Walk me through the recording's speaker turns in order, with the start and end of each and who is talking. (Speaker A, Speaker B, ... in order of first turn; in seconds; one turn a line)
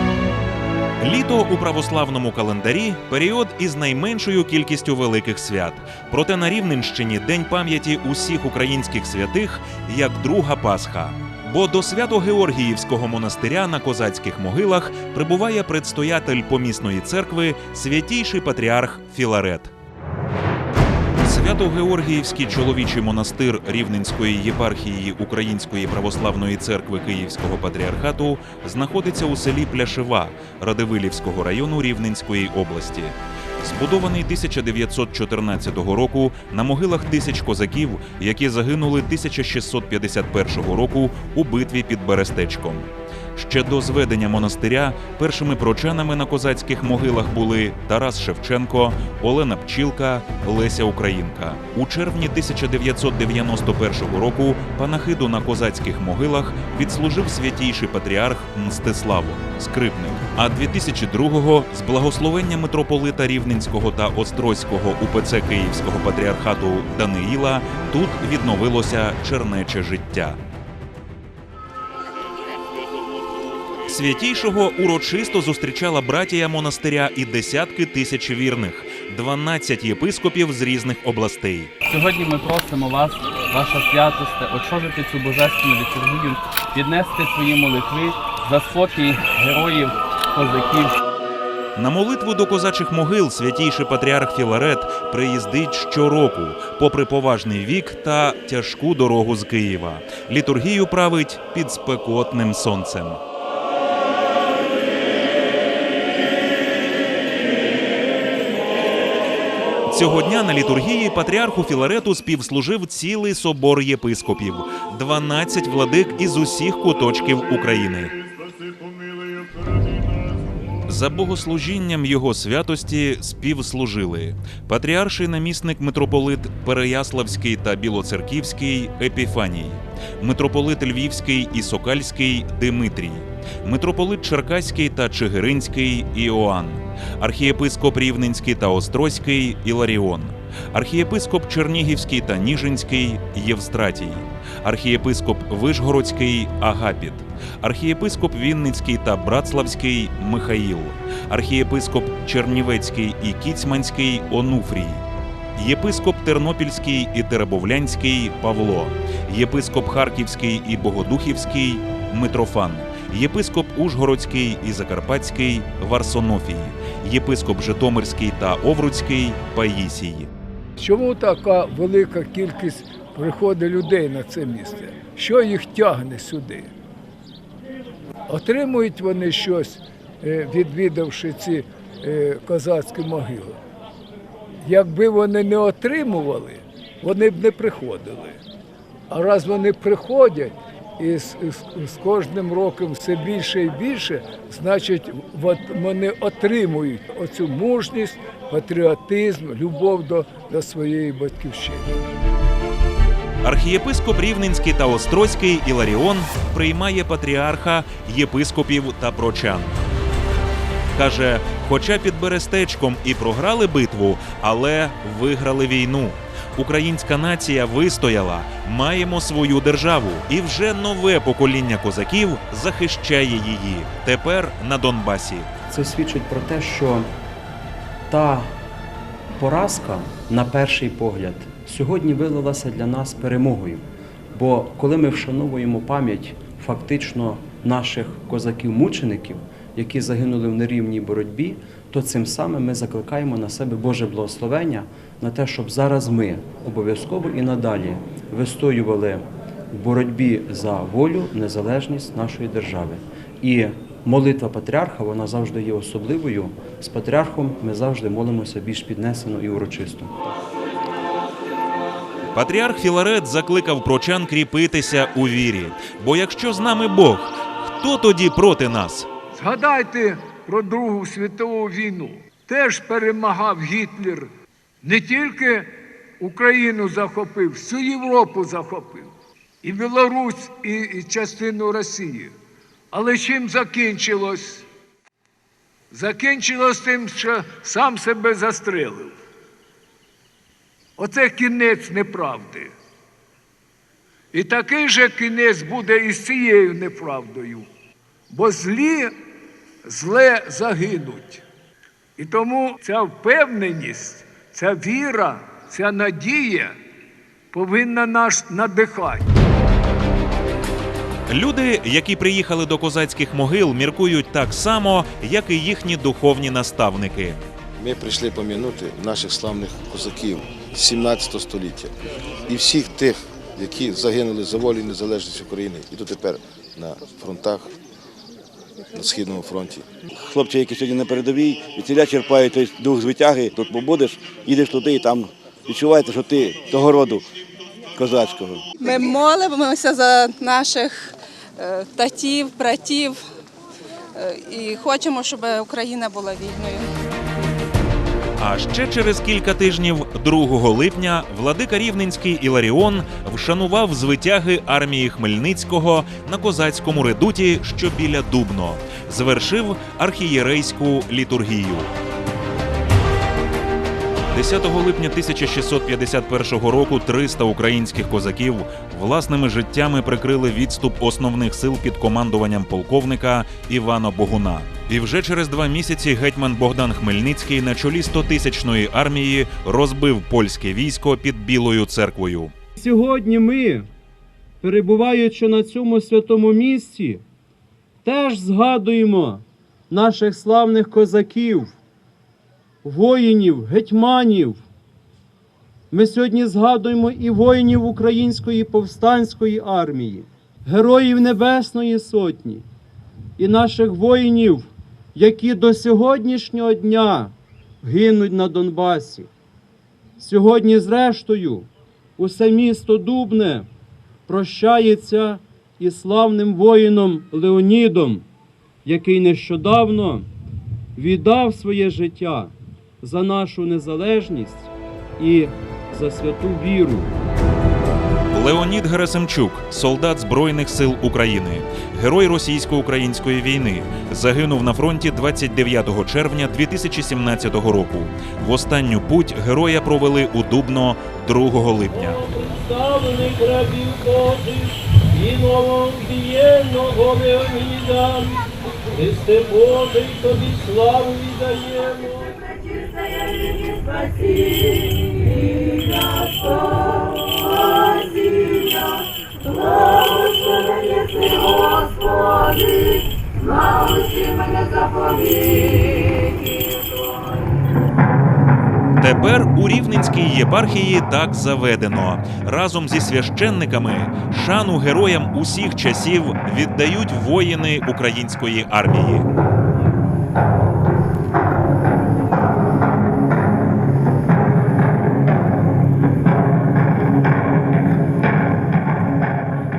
Speaker A: 1.0-19.7
Speaker A: 21.2-70.4
Speaker A: 73.9-81.7
Speaker B: 81.9-89.8
Speaker C: 82.0-82.3
Speaker B: 90.4-90.9
Speaker A: 91.8-103.2
Speaker A: 109.9-118.1
Speaker A: 120.9-155.0
Speaker A: 155.6-170.3
Speaker D: 170.8-176.7
Speaker D: 178.3-183.6
Speaker D: 184.6-188.4
Speaker D: 189.1-202.0
Speaker A: 203.4-209.8
Speaker A: 210.9-225.5
Speaker E: 225.7-227.1
Speaker E: 228.1-228.5
Speaker E: 229.3-260.1
Speaker A: 262.3-269.1
Speaker D: 269.4-274.3
Speaker D: 274.8-279.1
Speaker D: 279.6-282.3
Speaker D: 282.9-284.6
Speaker D: 285.9-289.1
Speaker D: 291.0-292.7
Speaker D: 294.3-297.7
Speaker D: 298.3-299.1
Speaker D: 299.9-301.4
Speaker D: 302.2-306.7
Speaker D: 307.5-309.2
Speaker A: 311.3-317.4
Speaker F: 317.8-321.9
Speaker F: 322.5-327.7
Speaker F: 328.9-329.9
Speaker G: 330.2-337.3
Speaker G: 337.9-338.6
Speaker C: 338.9-341.1
Speaker C: 341.6-343.1
Speaker C: 344.2-346.9
Speaker A: 348.4-361.9
Speaker A: 364.3-382.5
Speaker H: 382.8-383.9
Speaker H: 384.6-387.2
Speaker H: 388.1-391.8
Speaker H: 392.9-394.6
Speaker H: 395.9-402.6
Speaker H: 403.4-407.3
Speaker H: 407.9-409.3
Speaker H: 410.2-413.7
Speaker H: 414.3-418.2
Speaker H: 418.9-420.3
Speaker H: 421.0-422.5
Speaker H: 423.0-424.7
Speaker H: 425.2-427.1
Speaker A: 428.3-442.5
Speaker H: 442.1-443.5
Speaker H: 444.1-444.5
Speaker H: 445.2-446.8
Speaker H: 449.0-451.6
Speaker A: 469.0-479.3